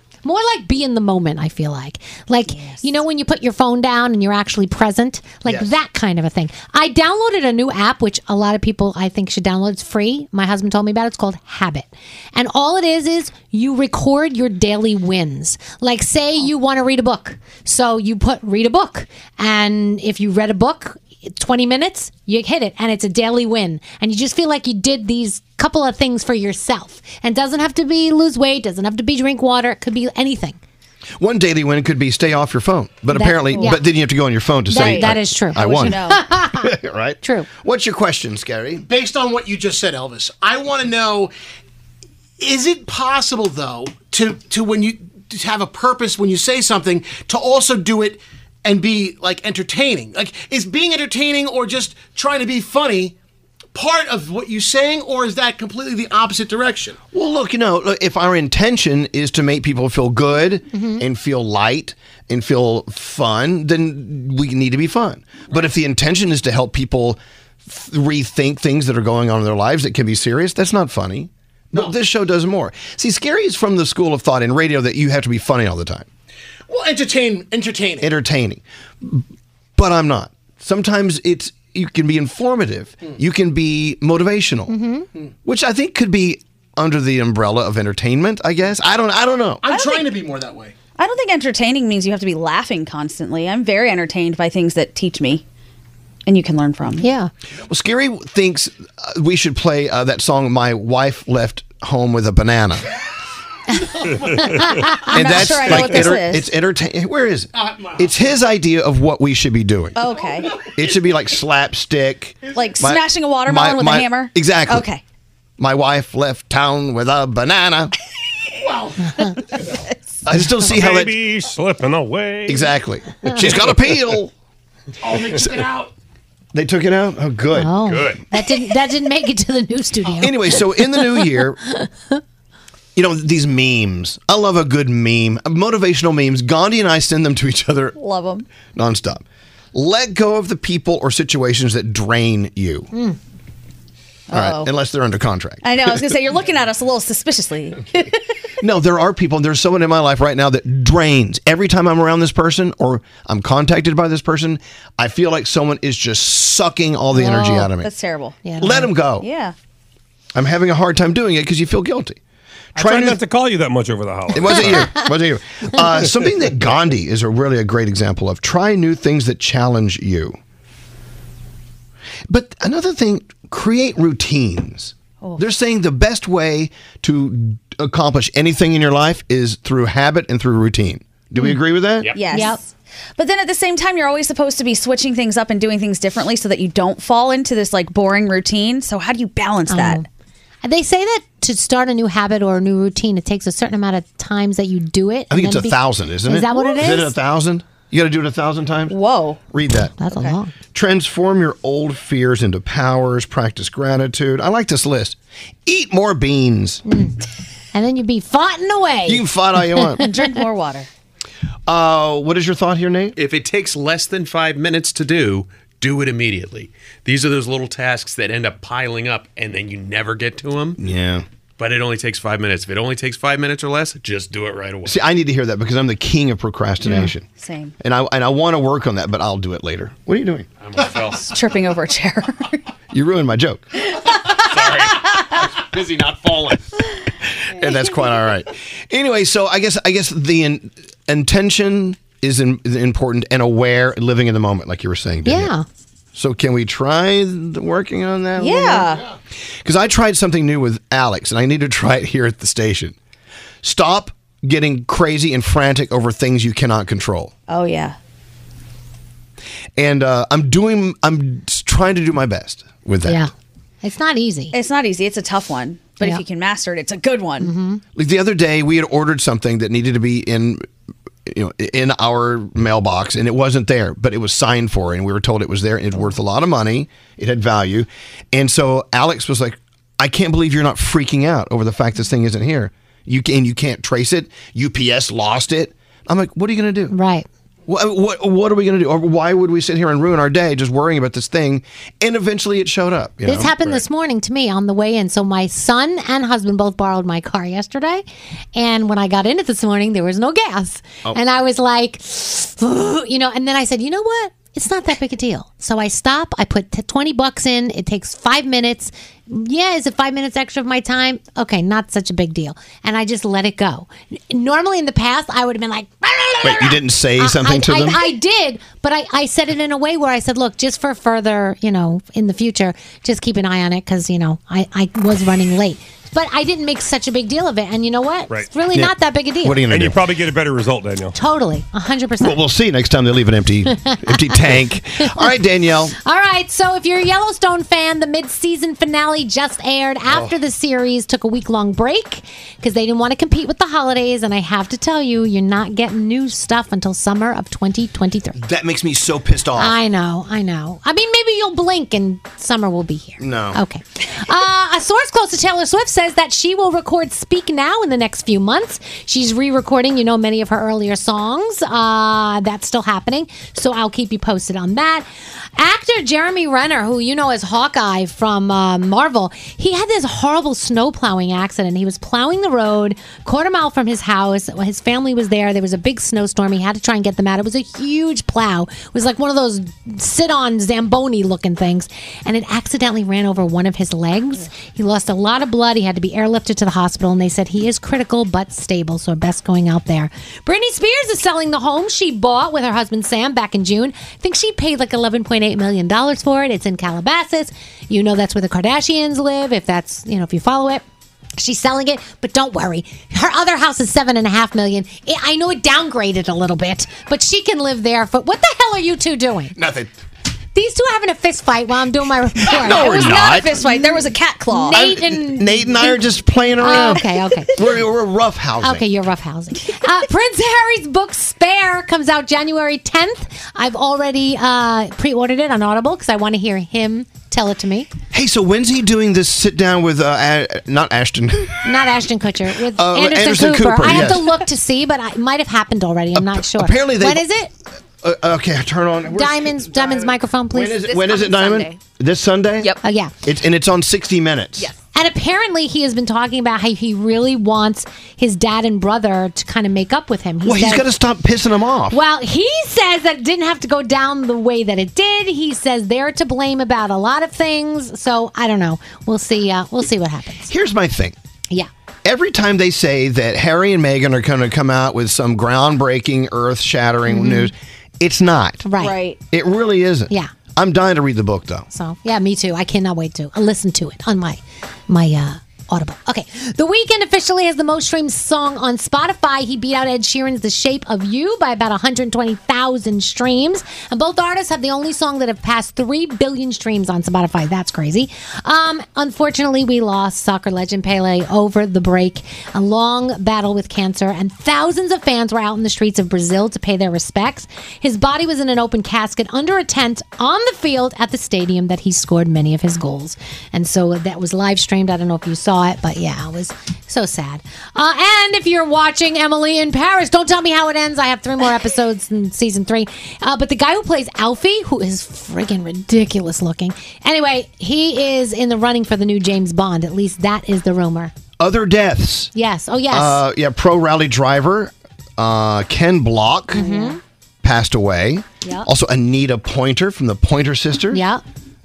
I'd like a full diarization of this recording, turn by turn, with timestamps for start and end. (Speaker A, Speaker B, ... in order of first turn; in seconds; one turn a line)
Speaker A: 0.2-30.6
Speaker B: 2.5-2.8
Speaker C: 31.2-36.0
Speaker A: 33.1-33.8
Speaker B: 33.5-33.8
Speaker A: 34.7-36.7
Speaker B: 34.7-36.3
Speaker C: 36.6-38.9
Speaker A: 37.2-37.5
Speaker D: 38.9-41.3
Speaker D: 42.4-53.1
Speaker D: 53.7-57.0
Speaker C: 57.1-76.1
Speaker A: 60.7-61.0
Speaker D: 76.7-78.1
Speaker C: 78.0-79.2
Speaker C: 79.8-84.7
Speaker A: 84.7-85.1
Speaker C: 85.5-89.6
Speaker D: 89.6-90.8
Speaker B: 89.7-90.2
Speaker B: 91.0-95.4
Speaker B: 96.3-97.1
Speaker A: 97.0-97.3
Speaker C: 97.7-102.9
Speaker C: 105.0-110.0
Speaker B: 105.1-106.5
Speaker D: 107.5-108.1
Speaker B: 110.0-110.6
Speaker C: 110.7-114.9
Speaker B: 112.5-115.0
Speaker C: 115.6-117.9
Speaker D: 118.7-119.1
Speaker C: 120.3-121.2
Speaker E: 120.5-122.7
Speaker C: 122.5-124.3
Speaker D: 125.0-125.9
Speaker C: 126.5-127.7
Speaker A: 127.5-131.9
Speaker C: 130.2-131.6
Speaker C: 133.0-138.0
Speaker B: 138.0-138.5
Speaker C: 138.8-142.9
Speaker B: 144.3-144.7
Speaker C: 144.3-145.7
Speaker B: 145.6-148.2
Speaker C: 148.6-157.9
Speaker A: 157.1-157.7
Speaker B: 157.8-158.4
Speaker A: 158.4-158.9
Speaker C: 158.6-159.3
Speaker B: 159.2-159.6
Speaker C: 160.3-162.2
Speaker C: 162.8-163.2
Speaker E: 162.8-165.0
Speaker C: 164.3-170.4
Speaker C: 172.3-182.1
Speaker F: 182.0-182.3
Speaker B: 182.1-190.0
Speaker A: 182.3-182.6
Speaker A: 189.7-190.1
Speaker A: 190.6-197.2
Speaker C: 195.3-199.0
Speaker B: 198.9-199.4
Speaker C: 199.5-199.9
Speaker A: 200.0-200.5
Speaker B: 200.1-200.4
Speaker C: 200.7-206.8
Speaker A: 206.9-207.2
Speaker A: 207.7-210.1
Speaker C: 209.1-210.0
Speaker B: 210.0-210.9
Speaker C: 211.7-213.2
Speaker F: 213.2-220.8
Speaker C: 220.8-221.2
Speaker F: 221.6-224.9
Speaker C: 224.8-227.3
Speaker B: 226.8-227.7
Speaker C: 227.8-230.5
Speaker B: 231.2-232.6
Speaker C: 232.9-233.6
Speaker F: 235.8-236.4
Speaker C: 237.5-245.5
Speaker A: 245.2-245.7
Speaker C: 246.2-248.9
Speaker B: 248.4-249.1
Speaker C: 249.6-252.9
Speaker C: 253.6-257.3
Speaker B: 257.5-258.0
Speaker C: 259.8-263.2
Speaker A: 263.0-263.3
Speaker A: 263.8-264.5
Speaker B: 264.5-267.5
Speaker A: 267.4-267.8
Speaker C: 267.9-270.6
Speaker C: 271.3-286.9
Speaker A: 286.9-287.3
Speaker C: 287.7-293.8
Speaker A: 293.2-298.0
Speaker A: 298.6-329.7
Speaker C: 316.4-318.0
Speaker C: 328.7-330.1
Speaker E: 329.7-331.2
Speaker A: 331.1-332.4
Speaker C: 332.2-335.9
Speaker A: 336.0-348.4
Speaker C: 340.1-340.4
Speaker C: 348.4-349.8
Speaker A: 349.6-365.1
Speaker C: 353.2-353.6
Speaker A: 365.6-400.8
Speaker A: 401.4-409.6
Speaker C: 409.6-409.9
Speaker A: 410.6-416.0
Speaker B: 412.5-414.8
Speaker C: 412.6-413.5
Speaker C: 414.7-418.9
Speaker A: 416.6-417.6
Speaker A: 418.6-427.9
Speaker C: 428.1-431.6
Speaker A: 431.6-437.5
Speaker C: 432.8-434.3
Speaker C: 436.1-437.2
Speaker C: 438.0-444.7
Speaker A: 439.1-440.9
Speaker A: 442.8-443.1
Speaker A: 444.9-450.9
Speaker C: 450.4-452.0
Speaker A: 451.9-460.5
Speaker C: 460.5-461.2
Speaker C: 462.1-468.6
Speaker A: 467.1-467.5
Speaker A: 468.6-468.9
Speaker B: 468.8-469.2
Speaker C: 469.3-471.7
Speaker A: 471.7-521.1
Speaker C: 521.4-522.3
Speaker A: 522.3-523.2
Speaker C: 522.9-526.7
Speaker A: 526.5-527.0
Speaker B: 526.6-526.9
Speaker C: 527.4-531.0
Speaker A: 530.9-531.2